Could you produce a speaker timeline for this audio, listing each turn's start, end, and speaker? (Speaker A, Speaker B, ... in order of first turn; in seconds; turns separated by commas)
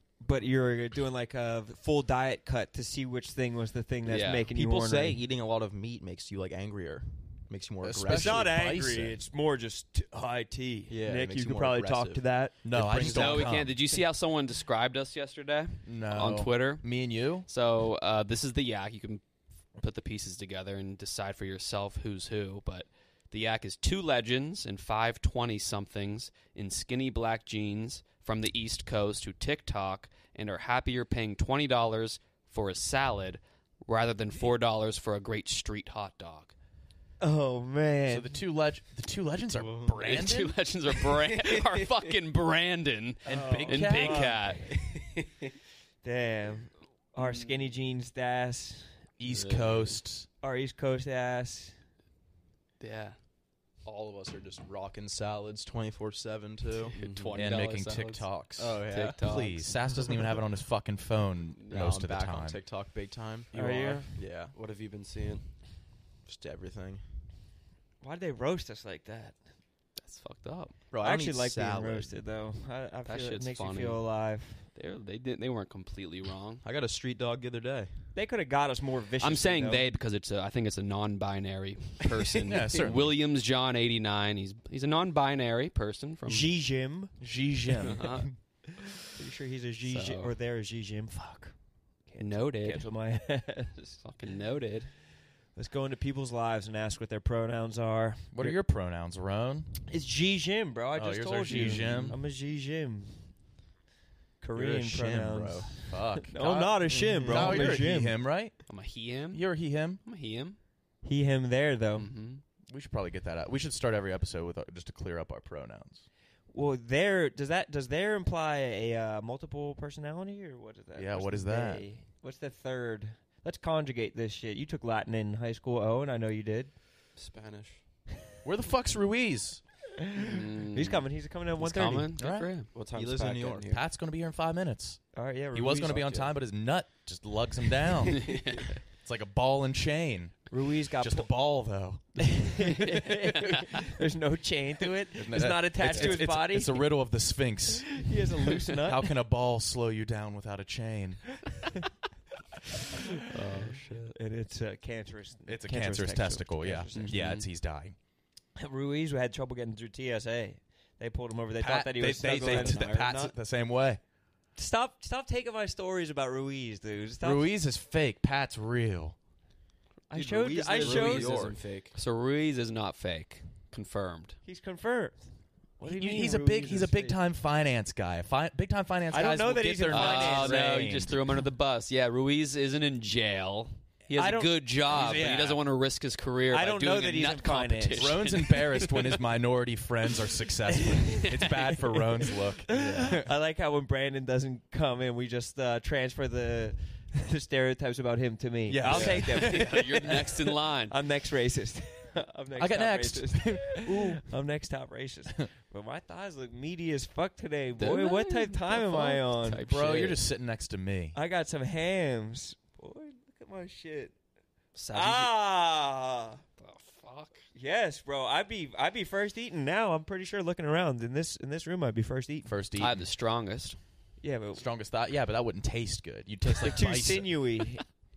Speaker A: 0.2-5.2, Speaker B: 4.0-4.5, Speaker C: 4.5-8.5, Speaker D: 7.8-9.2, Speaker A: 8.0-12.6, Speaker C: 10.9-13.7, Speaker D: 12.6-13.8, Speaker B: 13.1-19.2, Speaker D: 15.8-17.5, Speaker B: 19.8-36.5, Speaker A: 37.2-38.4, Speaker D: 38.1-40.5, Speaker C: 39.5-40.0, Speaker B: 40.0-44.7, Speaker A: 43.2-44.6, Speaker D: 43.2-44.3, Speaker A: 46.0-49.0, Speaker B: 47.2-47.7, Speaker D: 49.2-50.3, Speaker B: 49.3-50.0, Speaker A: 50.4-51.8, Speaker B: 52.8-53.2, Speaker C: 53.8-57.0, Speaker E: 56.9-57.4, Speaker B: 56.9-59.6, Speaker D: 57.3-62.6, Speaker C: 58.5-60.1, Speaker B: 61.6-61.9, Speaker C: 61.7-63.6, Speaker A: 63.5-64.2, Speaker E: 63.6-65.5, Speaker D: 63.6-63.9, Speaker C: 64.1-64.5, Speaker C: 66.2-67.0, Speaker A: 68.0-69.4, Speaker B: 70.0-70.8, Speaker C: 70.9-72.2, Speaker A: 71.0-74.7, Speaker B: 73.0-74.1, Speaker B: 74.7-76.6, Speaker C: 76.6-78.1, Speaker A: 78.1-79.9, Speaker B: 79.2-86.5, Speaker D: 82.5-83.2, Speaker A: 86.2-94.0, Speaker D: 87.2-88.4, Speaker B: 87.8-88.3, Speaker B: 89.8-90.4, Speaker B: 92.2-92.9, Speaker B: 94.0-94.9, Speaker A: 95.5-98.6, Speaker D: 98.3-99.7, Speaker A: 99.9-103.3, Speaker D: 100.9-102.2, Speaker B: 101.5-102.2, Speaker A: 104.4-108.2, Speaker C: 104.5-105.7, Speaker D: 105.8-108.6, Speaker C: 106.8-107.6, Speaker B: 108.7-109.4, Speaker D: 109.3-110.0, Speaker B: 110.0-110.6, Speaker A: 111.0-112.1, Speaker B: 111.9-112.4, Speaker D: 112.7-116.0, Speaker A: 116.5-126.7, Speaker D: 120.9-121.8, Speaker E: 127.2-127.8, Speaker D: 128.4-129.6, Speaker A: 130.1-132.2, Speaker B: 130.2-132.7, Speaker D: 132.1-132.6, Speaker E: 132.7-133.8, Speaker C: 132.9-133.6, Speaker D: 133.7-140.4, Speaker A: 135.1-136.3, Speaker B: 138.1-138.6, Speaker A: 140.5-147.1, Speaker D: 141.0-142.1, Speaker D: 145.2-147.9, Speaker A: 147.7-149.2, Speaker D: 148.7-151.2, Speaker E: 153.5-154.1, Speaker A: 153.5-157.4, Speaker D: 155.5-157.9, Speaker B: 156.9-157.4, Speaker A: 158.6-163.3, Speaker D: 161.6-164.0, Speaker E: 162.4-163.0, Speaker A: 164.6-167.5, Speaker D: 167.2-169.2, Speaker A: 170.1-171.5, Speaker C: 170.2-171.6, Speaker E: 170.4-171.9, Speaker B: 171.9-174.4, Speaker A: 174.4-177.2, Speaker D: 175.8-181.2, Speaker A: 179.1-180.8, Speaker B: 179.9-189.1, Speaker A: 184.1-185.2, Speaker D: 184.9-185.6, Speaker A: 186.5-188.2, Speaker D: 187.9-193.2, Speaker A: 190.7-191.3, Speaker A: 192.2-209.7, Speaker D: 198.7-199.7, Speaker B: 198.8-201.0, Speaker D: 202.5-204.2, Speaker B: 207.8-210.2, Speaker D: 209.6-211.2, Speaker A: 211.1-214.1, Speaker B: 214.7-215.3, Speaker A: 214.9-216.4, Speaker B: 216.6-217.4, Speaker A: 217.5-222.5, Speaker D: 222.4-223.1, Speaker B: 222.8-223.8, Speaker A: 224.2-224.6, Speaker D: 224.5-227.4, Speaker A: 226.6-227.8